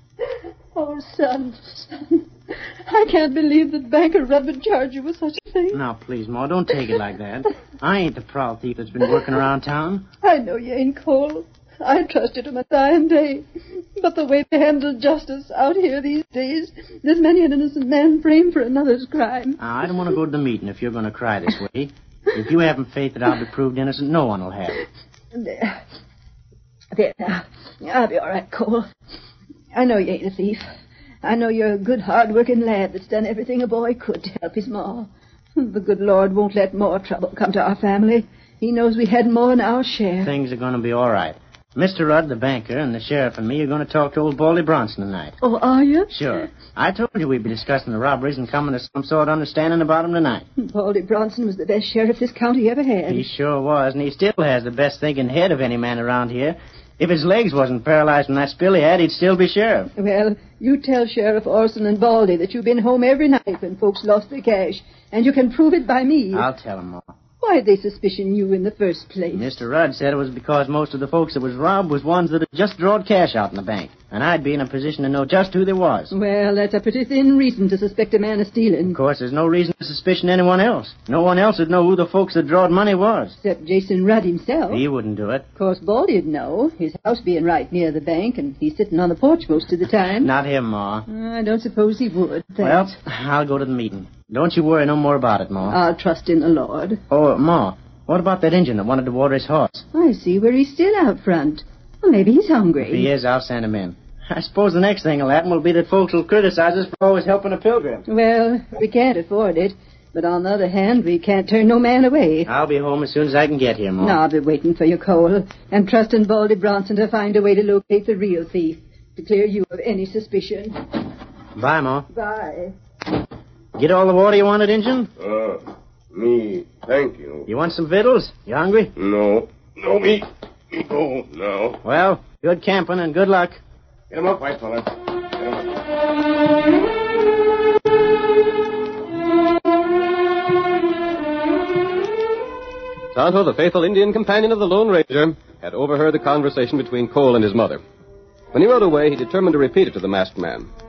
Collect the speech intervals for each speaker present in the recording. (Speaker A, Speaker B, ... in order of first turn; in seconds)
Speaker A: 0.8-2.2, 2.9-5.8, 10.2-13.4, 14.0-19.6, 25.4-25.8, 26.9-28.9, 29.7-30.7, 31.2-40.3, 45.4-46.1, 50.6-53.3, 60.0-66.5, 67.4-69.5, 76.1-79.0, 83.4-84.8, 85.6-90.3, 91.1-92.9, 95.7-97.0, 99.9-103.1, 108.1-112.5, 114.0-120.8, 122.1-122.7
Speaker B: 5.7-10.1, 19.6-24.8, 40.2-45.3, 46.1-50.5, 53.1-59.9, 66.3-67.1, 69.3-76.1, 78.9-83.3, 84.7-85.5, 90.2-91.0, 92.6-95.8, 97.1-99.8, 102.8-108.0, 112.5-114.2, 121.6-122.1, 123.8-125.1, 127.5-128.9, 131.8-133.6
Speaker C: 125.2-125.6, 126.1-127.5, 129.0-131.8, 134.1-134.8
Speaker D: 143.1-147.8, 148.5-150.7